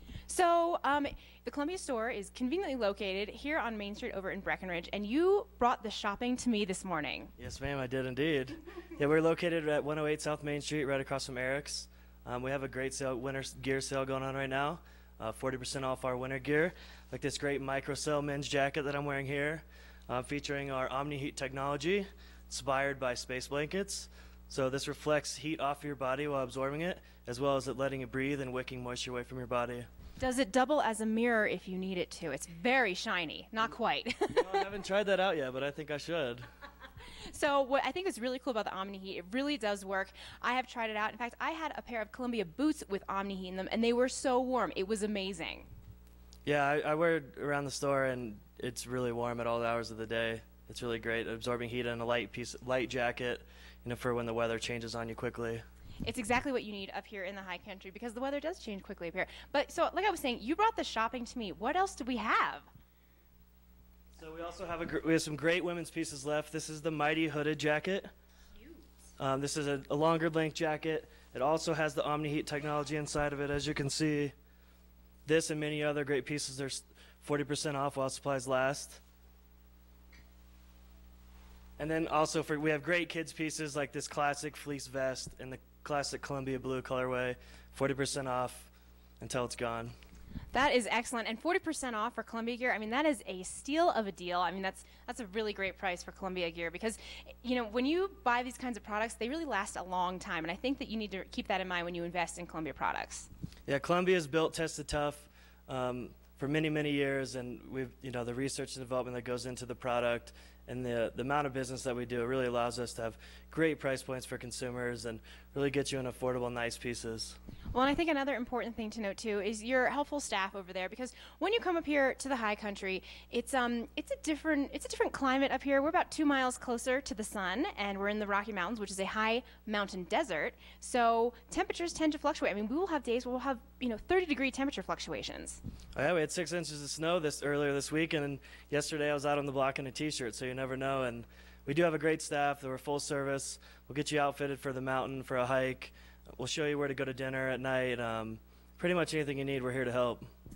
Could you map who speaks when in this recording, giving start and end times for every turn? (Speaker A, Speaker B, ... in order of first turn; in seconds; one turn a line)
Speaker A: 0.3-7.3
Speaker B: 7.4-29.9
Speaker A: 30.2-34.7
Speaker B: 34.4-36.5
Speaker A: 37.2-45.7
Speaker B: 46.5-55.6
Speaker A: 56.0-62.7
Speaker B: 64.2-68.1
Speaker B: 69.2-74.3
Speaker B: 75.3-79.0
Speaker B: 81.8-89.9
Speaker A: 90.5-103.3
Speaker B: 103.7-117.4
Speaker A: 117.7-135.6
Speaker B: 135.9-150.3